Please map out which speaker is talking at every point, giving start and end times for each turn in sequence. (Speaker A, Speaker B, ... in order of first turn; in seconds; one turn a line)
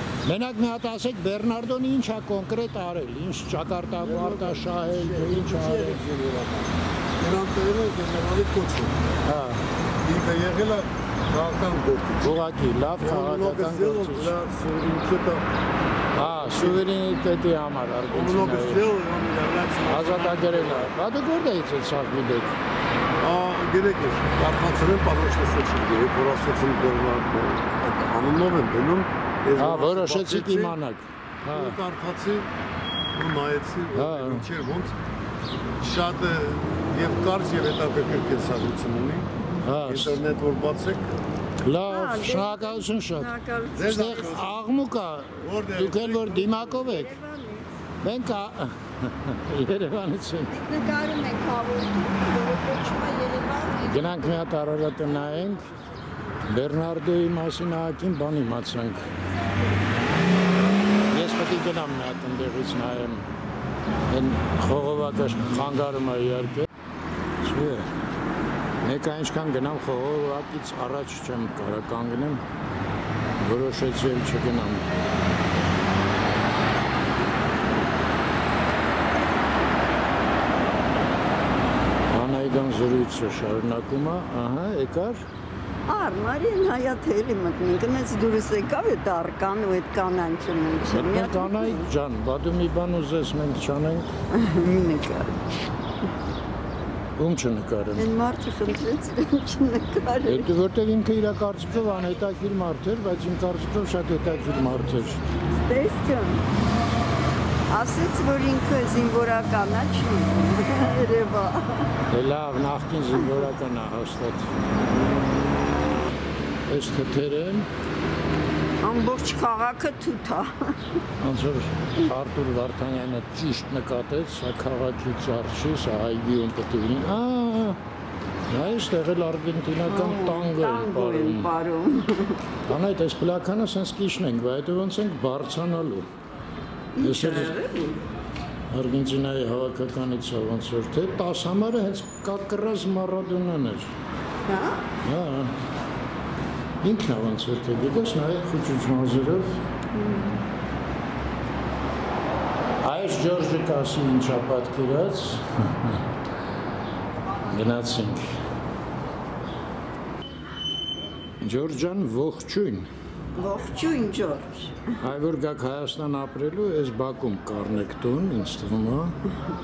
Speaker A: 0.2-6.0
Speaker B: 4.0-9.0
Speaker A: 9.2-9.6
Speaker B: 10.0-12.4
Speaker A: 12.2-14.3
Speaker B: 13.0-15.4
Speaker A: 16.1-18.9
Speaker B: 16.2-16.9
Speaker B: 18.1-20.9
Speaker A: 19.9-22.6
Speaker B: 23.2-30.8
Speaker A: 29.5-31.8
Speaker B: 31.5-32.5
Speaker B: 33.1-34.9
Speaker A: 33.9-34.5
Speaker B: 35.8-39.3
Speaker A: 39.6-40.2
Speaker B: 39.8-41.1
Speaker A: 41.6-43.3
Speaker C: 41.8-44.4
Speaker B: 43.7-44.5
Speaker A: 43.9-47.1
Speaker B: 45.4-46.9
Speaker C: 46.8-47.7
Speaker A: 48.0-50.5
Speaker C: 50.5-54.4
Speaker A: 53.8-55.6
Speaker A: 56.4-59.1
Speaker A: 61.1-63.2
Speaker A: 64.1-66.7
Speaker A: 67.4-67.9
Speaker A: 68.8-72.4
Speaker A: 73.4-75.1
Speaker A: 82.1-85.2
Speaker C: 85.8-91.9
Speaker A: 90.9-94.1
Speaker C: 94.3-95.4
Speaker A: 97.2-98.1
Speaker C: 97.9-100.5
Speaker A: 100.3-105.2
Speaker C: 105.5-106.4
Speaker C: 107.7-111.9
Speaker A: 112.1-114.5
Speaker A: 116.7-117.7
Speaker C: 118.8-120.7
Speaker A: 121.2-127.8
Speaker A: 128.5-131.5
Speaker C: 129.8-132.4
Speaker A: 132.7-136.1
Speaker C: 136.9-138.1
Speaker A: 137.0-137.6
Speaker A: 138.7-143.9
Speaker C: 144.5-144.8
Speaker A: 145.0-145.5
Speaker A: 146.8-149.6
Speaker C: 149.9-150.4
Speaker A: 152.8-156.0
Speaker A: 157.5-158.2
Speaker A: 161.4-162.9
Speaker C: 163.3-164.9
Speaker A: 165.0-169.2